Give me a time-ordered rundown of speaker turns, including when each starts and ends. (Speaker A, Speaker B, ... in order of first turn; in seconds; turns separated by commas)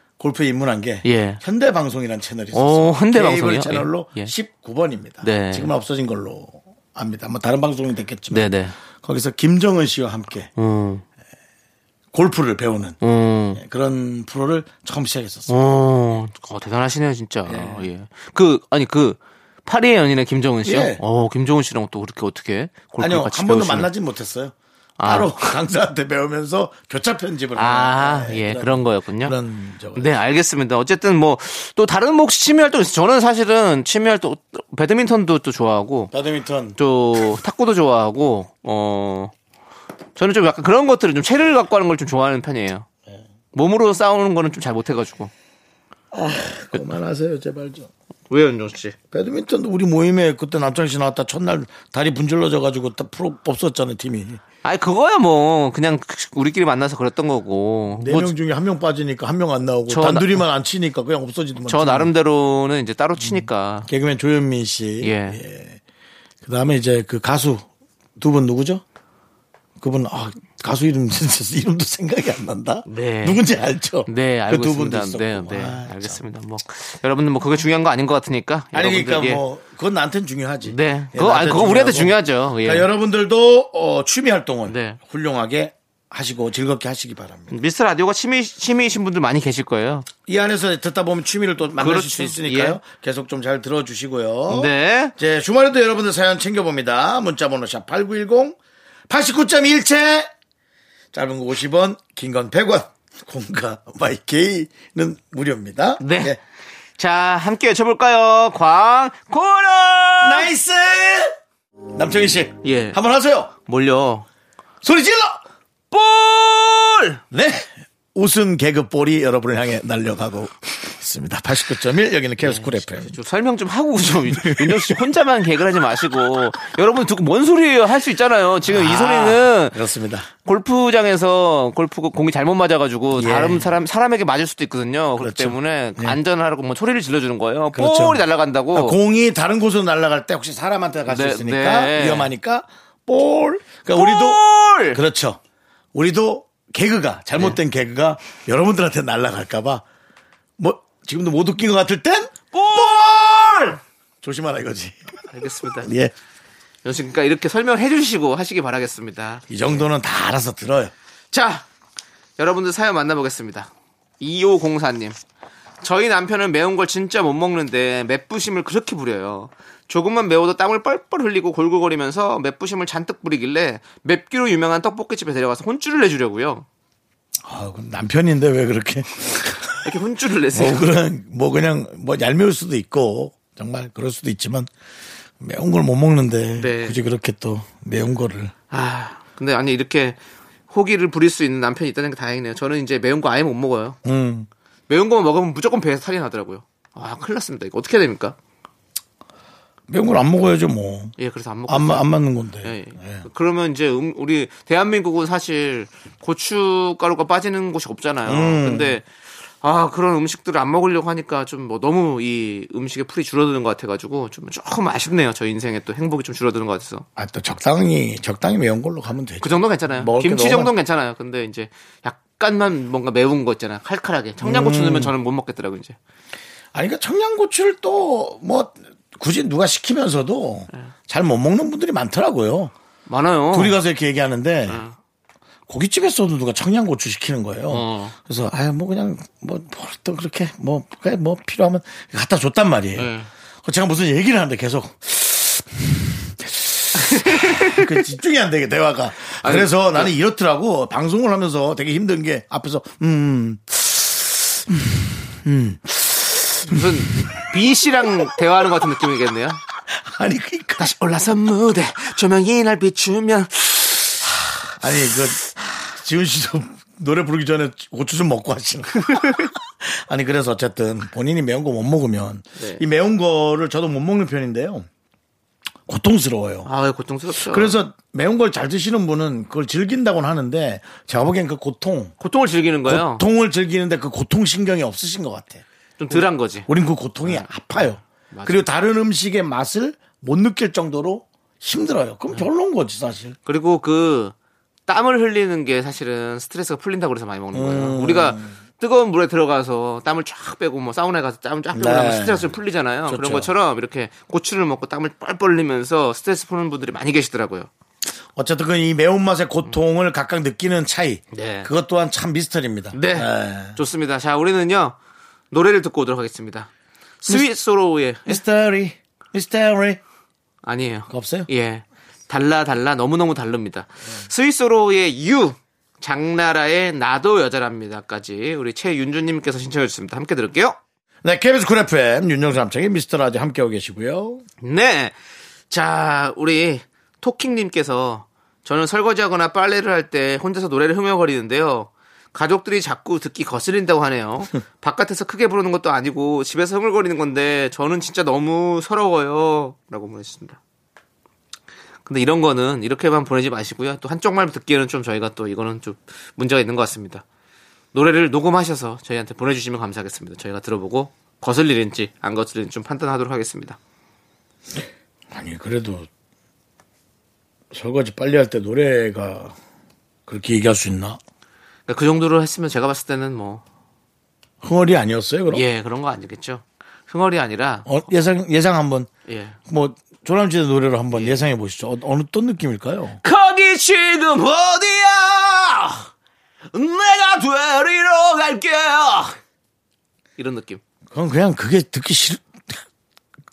Speaker A: 0.2-8.5, Speaker B: 1.0-1.4, Speaker B: 2.5-4.3, Speaker B: 5.2-5.7, Speaker B: 8.3-8.8, Speaker A: 9.0-10.5, Speaker B: 10.6-11.0, Speaker A: 12.1-13.0, Speaker B: 13.0-13.6, Speaker A: 13.5-15.5, Speaker B: 15.5-23.9, Speaker A: 17.5-17.9, Speaker A: 20.6-21.0, Speaker A: 23.0-30.1, Speaker B: 25.0-25.6, Speaker B: 27.6-29.4, Speaker B: 29.9-36.1, Speaker A: 36.1-36.8, Speaker B: 36.8-39.3, Speaker B: 40.2-42.9, Speaker B: 43.5-45.3, Speaker A: 46.1-47.9, Speaker B: 48.3-49.0, Speaker A: 49.1-54.4, Speaker B: 54.6-58.3, Speaker A: 58.0-62.1, Speaker B: 59.9-60.5, Speaker B: 61.7-63.9, Speaker A: 63.2-65.8, Speaker B: 65.0-65.4, Speaker A: 66.4-67.7, Speaker A: 68.2-68.8, Speaker A: 69.8-76.2, Speaker B: 72.9-73.4, Speaker B: 74.1-79.4, Speaker A: 78.7-87.6, Speaker B: 80.6-82.9, Speaker B: 84.7-85.0, Speaker B: 87.5-90.1, Speaker A: 90.3-98.6, Speaker B: 91.8-92.8, Speaker B: 94.5-95.1, Speaker A: 99.1-100.3, Speaker A: 101.1-106.4, Speaker B: 106.0-106.4, Speaker B: 107.0-110.5, Speaker A: 110.2-111.3, Speaker A: 111.9-113.5, Speaker B: 112.6-113.0, Speaker B: 113.7-114.3, Speaker A: 114.8-115.4, Speaker B: 115.9-117.2, Speaker A: 117.3-123.1, Speaker B: 122.4-129.8, Speaker A: 124.3-125.0, Speaker A: 128.7-130.3, Speaker B: 130.5-139.0, Speaker A: 133.2-133.8, Speaker A: 135.2-136.2, Speaker A: 137.7-145.4, Speaker B: 141.1-142.3, Speaker B: 143.9-145.0, Speaker A: 145.9-149.8, Speaker A: 150.6-155.3, Speaker B: 152.5-153.0, Speaker B: 155.3-155.9, Speaker A: 155.8-156.1, Speaker B: 156.8-159.8, Speaker A: 159.5-160.9, Speaker B: 161.3-161.7, Speaker B: 162.4-165.2, Speaker B: 165.8-176.7, Speaker A: 177.5-179.9, Speaker B: 179.8-180.9, Speaker A: 180.5-184.7, Speaker A: 185.4-188.5, Speaker B: 186.6-187.0, Speaker B: 188.7-190.2, Speaker B: 190.7-194.0, Speaker A: 194.1-194.5, Speaker B: 194.9-198.4, Speaker A: 199.9-201.2, Speaker B: 201.2-202.1, Speaker A: 201.7-203.3, Speaker B: 202.6-209.1, Speaker A: 208.2-209.0, Speaker B: 209.6-217.1, Speaker A: 217.2-220.7, Speaker B: 219.4-226.0, Speaker A: 224.4-225.1, Speaker A: 226.7-232.7, Speaker B: 233.1-233.8, Speaker A: 233.5-234.8, Speaker B: 234.7-235.0, Speaker A: 235.7-243.1, Speaker B: 237.7-238.2, Speaker B: 243.0-243.3, Speaker A: 243.6-256.1, Speaker B: 246.9-247.9, Speaker B: 249.4-250.1, Speaker B: 256.6-259.6, Speaker A: 260.1-260.9, Speaker B: 260.8-264.3, Speaker A: 264.8-274.9, Speaker B: 272.6-272.8, Speaker A: 275.9-276.7, Speaker B: 276.6-277.8, Speaker A: 277.5-282.1, Speaker B: 282.2-283.3, Speaker A: 282.9-293.4, Speaker B: 286.0-286.7, Speaker B: 287.2-288.6, Speaker B: 293.5-294.3, Speaker B: 294.9-307.7, Speaker A: 297.5-298.6, Speaker A: 301.7-302.5, Speaker A: 303.1-303.5, Speaker A: 308.4-313.8, Speaker B: 311.3-311.7, Speaker B: 312.9-315.0, Speaker B: 315.5-316.7, Speaker B: 317.2-318.4, Speaker A: 317.3-317.5, Speaker A: 318.3-320.0, Speaker B: 320.6-330.8, Speaker A: 321.1-321.5, Speaker A: 331.2-334.4, Speaker B: 334.6-335.1, Speaker B: 335.7-350.6, Speaker B: 352.1-357.2, Speaker B: 357.9-363.8, Speaker A: 365.3-366.1, Speaker A: 367.7-369.6, Speaker A: 370.3-371.2, Speaker B: 371.9-373.6, Speaker A: 374.6-375.6, Speaker B: 375.5-377.9, Speaker A: 377.9-379.1, Speaker B: 379.3-379.6, Speaker A: 379.7-383.2, Speaker B: 381.1-381.4, Speaker B: 383.2-386.1, Speaker B: 386.7-389.4, Speaker B: 390.4-390.8, Speaker A: 391.1-392.8